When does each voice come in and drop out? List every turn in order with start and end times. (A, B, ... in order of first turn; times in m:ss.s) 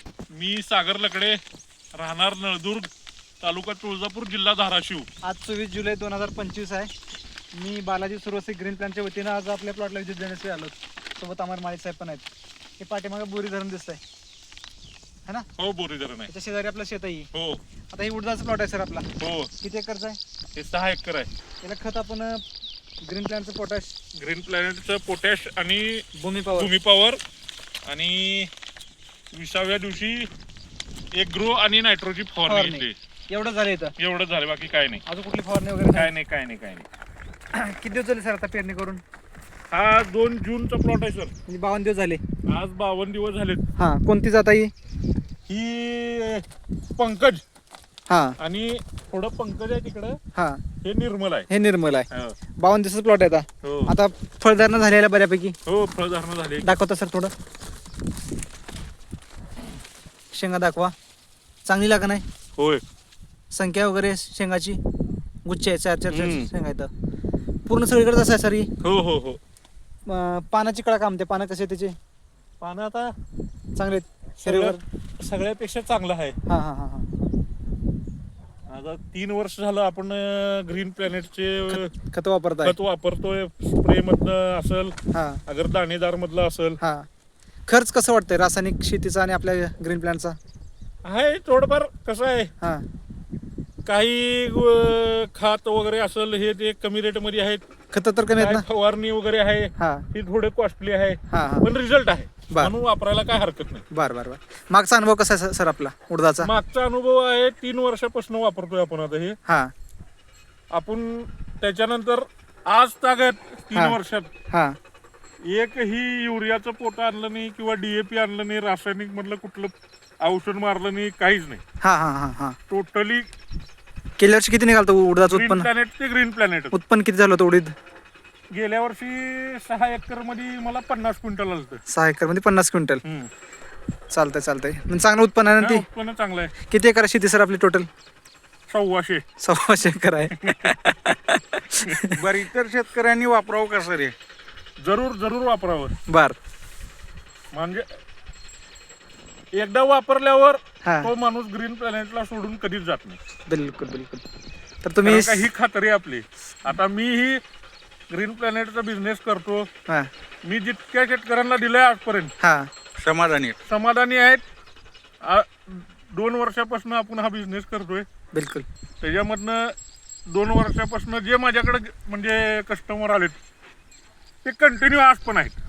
0:00.3-0:01.4 A
0:02.0-0:02.9 A
0:03.4-0:05.1 A
0:05.2-0:06.9 B
0:07.5-0:12.2 B
0:12.8-0:14.0 B
0:15.6-0:16.3 A
0:16.3-0:17.3 B
0:17.3-0:17.6 A
0:17.9-0:19.1 B
0:19.2-0:19.5 A
0:19.6-0:20.2 B
0:20.6-0:21.3 A
0:21.6-0:22.4 B
0:23.0-0:24.0 B
0:24.2-0:27.2 A
0:26.2-0:26.7 B
0:27.8-0:28.5 A
0:29.3-0:30.3 A
0:31.1-0:33.0 A
0:32.5-0:33.9 B
0:34.0-0:35.0 A
0:35.1-0:36.1 B
0:35.9-0:36.8 A
0:37.6-0:39.0 B
0:39.7-0:41.3 A
0:41.5-0:42.2 B
0:42.5-0:43.6 A
0:43.8-0:44.7 B
0:45.5-0:46.4 A
0:47.0-0:47.4 A
0:48.1-0:48.4 B
0:48.4-0:50.2 A
0:50.4-0:50.6 B
0:50.8-0:51.5 A
0:51.5-0:52.1 B
0:52.6-0:55.6 B
0:53.6-0:53.9 A
0:55.7-0:56.7 A
0:56.6-0:57.3 B
1:00.3-1:01.0 B
1:01.6-1:02.2 B
1:02.6-1:02.8 A
1:03.5-1:04.8 B
1:05.4-1:06.9 B
1:06.1-1:06.5 A
1:07.7-1:08.7 B
1:08.8-1:09.4 A
1:10.1-1:12.0 B
1:12.6-1:13.2 A
1:13.8-1:14.8 B
1:14.4-1:16.4 A
1:16.5-1:17.1 B
1:18.7-1:21.9 A
1:21.7-1:22.8 B
1:22.6-1:25.0 A
1:25.1-1:25.4 B
1:25.5-1:26.8 A
1:26.8-1:27.1 B
1:27.7-1:30.4 B
1:31.0-1:32.5 A
1:32.6-1:32.9 B
1:33.9-1:37.6 A
1:37.9-1:38.7 B
1:38.4-1:43.8 A
1:39.8-1:40.0 B
1:41.3-1:41.7 B
1:43.9-1:46.5 B
1:46.4-1:49.4 A
1:49.5-1:49.7 B
1:50.7-1:54.3 A
1:53.7-1:54.0 B
1:54.5-1:54.8 B
1:55.4-2:01.6 A
2:01.8-2:02.6 B
2:02.7-2:03.3 A
2:04.2-2:05.7 B
2:05.2-2:06.7 A
2:06.7-2:07.7 B
2:08.5-2:11.8 A
2:11.9-2:13.0 B
2:13.0-2:13.3 A
2:14.1-2:15.8 B
2:15.6-2:16.5 A
2:16.7-2:17.9 B
2:18.7-2:19.2 A
2:19.4-2:22.2 B
2:20.4-2:20.7 A
2:22.2-2:24.2 C
2:24.8-2:25.9 A
2:26.1-2:26.4 B
2:27.5-2:28.0 A
2:29.5-2:33.2 A
2:30.8-2:31.1 B
2:33.5-2:34.2 B
2:34.8-2:35.5 B
2:35.0-2:37.4 A
2:38.1-2:39.7 A
2:40.4-2:42.3 A
2:42.4-2:42.7 B
2:43.0-2:43.6 C
2:43.6-2:44.4 A
2:45.2-2:48.1 A
2:48.3-2:48.7 B
2:49.0-2:49.8 A
2:50.3-2:53.4 A
2:54.4-2:55.6 A